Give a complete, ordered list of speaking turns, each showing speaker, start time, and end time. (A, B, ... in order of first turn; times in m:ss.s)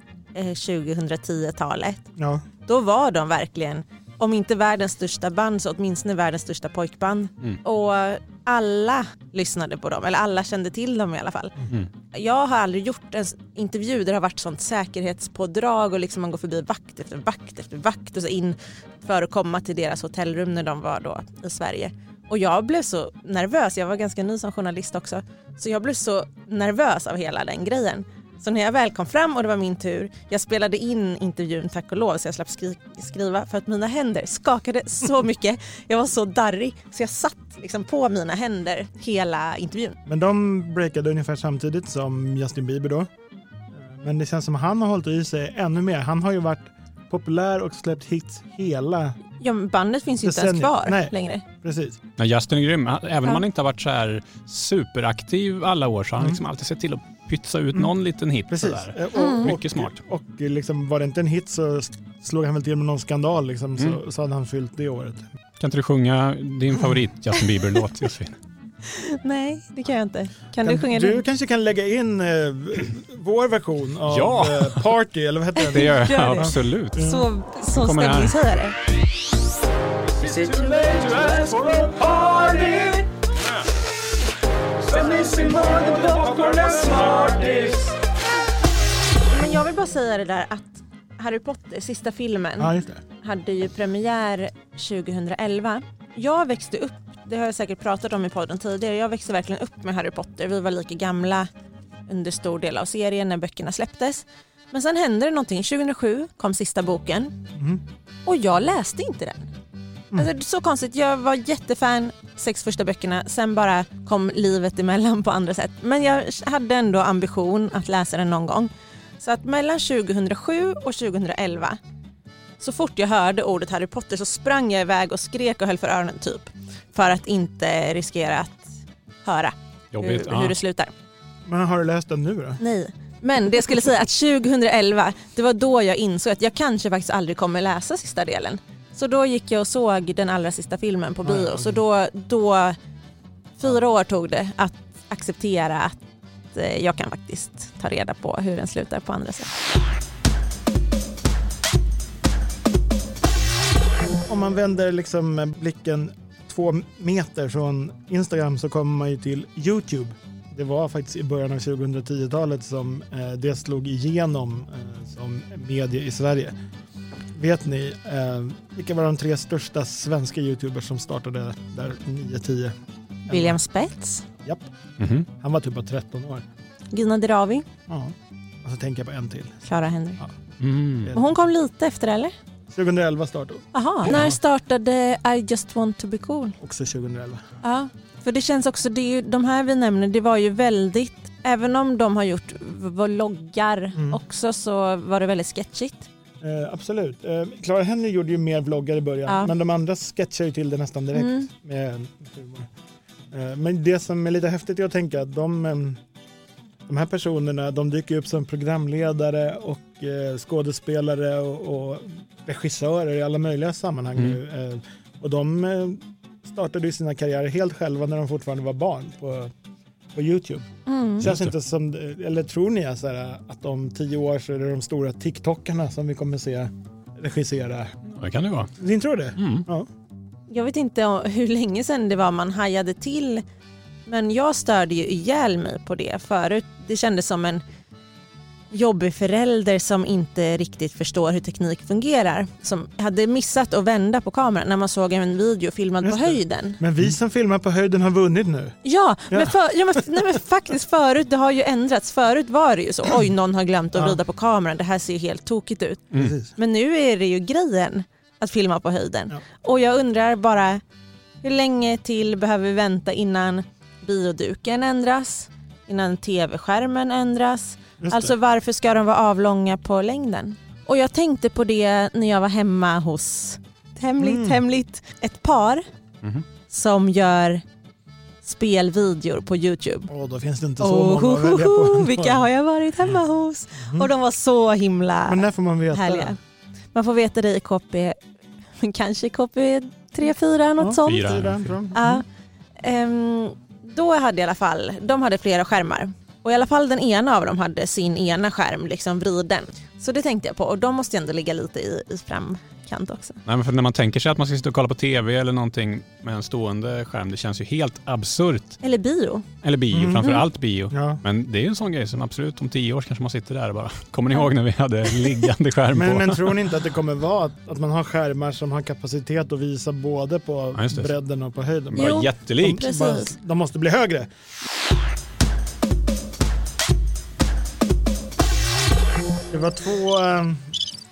0:00.3-0:02.0 A
0:02.2-0:02.4 B
0:02.6-0:11.6 A
0:12.1-0:40.0 A
0:40.0-0:43.1 B
0:43.7-0:49.2 B
0:49.4-0:51.4 A
0:50.2-0:52.0 B
0:52.2-1:00.0 C
0:58.5-1:05.2 B
0:59.1-0:59.5 A
1:05.6-1:08.4 C
1:08.8-1:11.2 A
1:10.6-1:17.2 B
1:14.1-1:14.9 C
1:15.6-1:18.7 A
1:15.7-1:18.4 C
1:20.2-1:22.6 C
1:20.4-1:23.0 A
1:24.9-1:27.6 A
1:27.1-1:27.9 C
1:29.2-1:41.5 A
1:32.6-1:33.0 B
1:42.1-1:47.4 A
1:47.6-1:47.8 B
1:48.2-1:49.5 A
1:50.1-2:01.8 A
2:02.6-2:10.9 A
2:09.9-2:10.5 C
2:11.4-2:12.6 B
2:12.6-2:22.8 A
2:21.2-2:21.8 B
2:23.6-2:26.0 A
2:26.5-2:29.5 A
2:34.0-2:46.5 B
2:47.3-2:52.7 B
2:53.3-2:53.6 B
2:53.3-2:54.2 A
2:54.4-2:54.7 B
2:55.0-2:55.3 C
2:55.3-2:56.4 B
2:56.9-2:57.7 A
2:57.9-2:59.6 B
2:59.6-3:00.2 A
3:00.6-3:01.1 C
3:01.0-3:01.3 B
3:01.1-3:02.3 A
3:02.7-3:04.4 B
3:03.7-3:06.6 A
3:06.6-3:07.4 B
3:07.6-3:16.1 A
3:16.4-3:22.7 B
3:19.3-3:19.5 A
3:21.1-3:21.5 A
3:23.3-3:26.0 B
3:26.9-3:39.5 B
3:40.1-3:40.7 B
3:40.8-3:41.3 A
3:41.2-3:47.9 B
3:41.2-3:41.5 C
3:48.1-3:48.7 C
3:48.8-3:49.9 B
3:49.4-3:49.7 C
3:50.5-3:53.4 A
3:54.0-3:57.6 A
3:58.7-4:06.8 A
4:06.0-4:08.8 B
4:08.8-4:20.8 A
4:16.1-4:16.5 B
4:21.4-4:35.8 A
4:28.0-4:28.3 B
4:34.2-4:34.6 B
4:36.7-4:37.6 A
4:38.4-4:40.1 A
4:40.1-4:42.5 B
4:40.8-4:46.4 A
4:43.8-4:44.1 B
4:45.3-4:46.4 B
4:46.9-4:48.2 A
4:48.8-4:51.4 A
4:50.8-4:52.2 B
4:51.0-4:51.8 C
4:51.9-4:52.2 A
4:52.8-5:03.4 A
5:03.4-5:08.8 C
5:08.8-5:09.5 A
5:09.6-5:16.5 C
5:09.9-5:11.2 B
5:15.9-5:24.3 B
5:20.7-5:21.1 C
5:21.9-5:22.9 C
5:22.0-5:23.3 A
5:29.5-5:30.8 B